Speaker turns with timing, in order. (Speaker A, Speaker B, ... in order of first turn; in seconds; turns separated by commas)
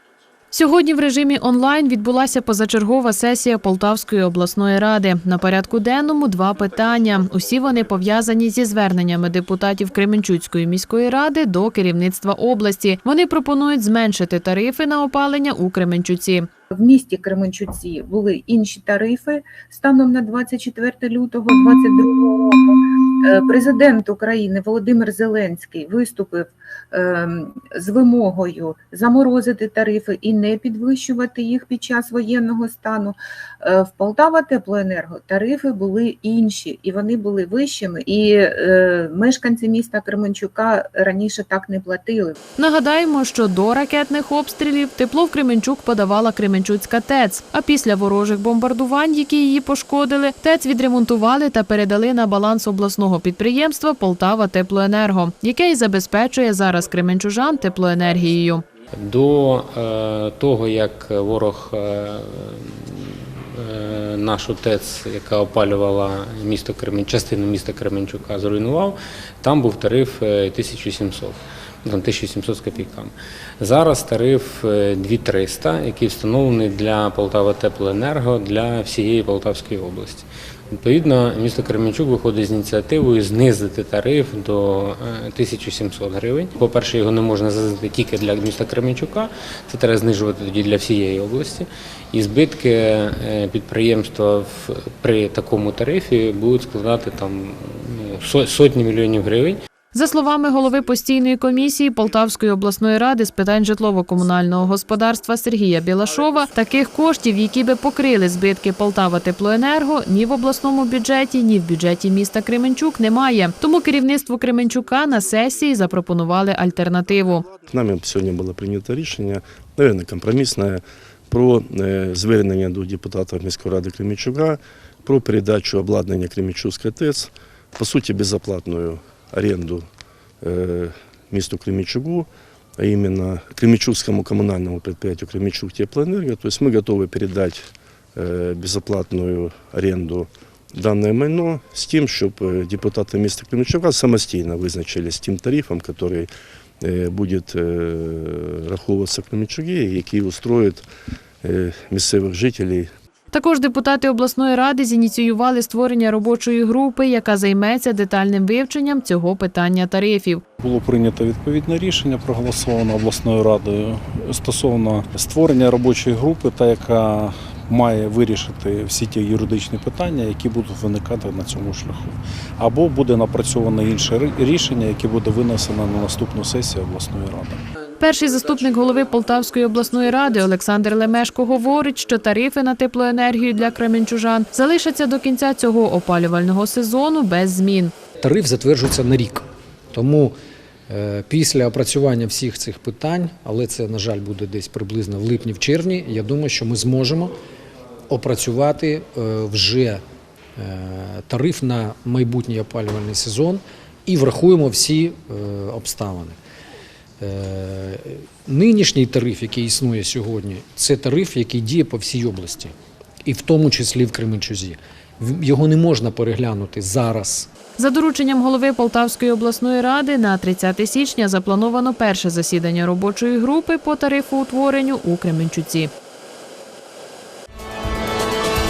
Speaker A: 0.5-16.5, Speaker B: 16.7-42.4, Speaker A: 42.6-58.6, Speaker C: 59.0-99.6, Speaker A: 99.9-117.5, Speaker D: 117.7-129.8, Speaker D: 130.4-146.3, Speaker D: 146.8-150.8, Speaker D: 151.4-152.9, Speaker A: 153.3-160.4, Speaker E: 160.6-177.6, Speaker A: 178.0-187.9, Speaker F: 188.2-190.3, Speaker F: 190.9-197.3, Speaker F: 198.1-200.0, Speaker F: 200.6-206.4, Speaker F: 207.2-212.7, Speaker F: 213.2-217.5, Speaker A: 217.8-225.9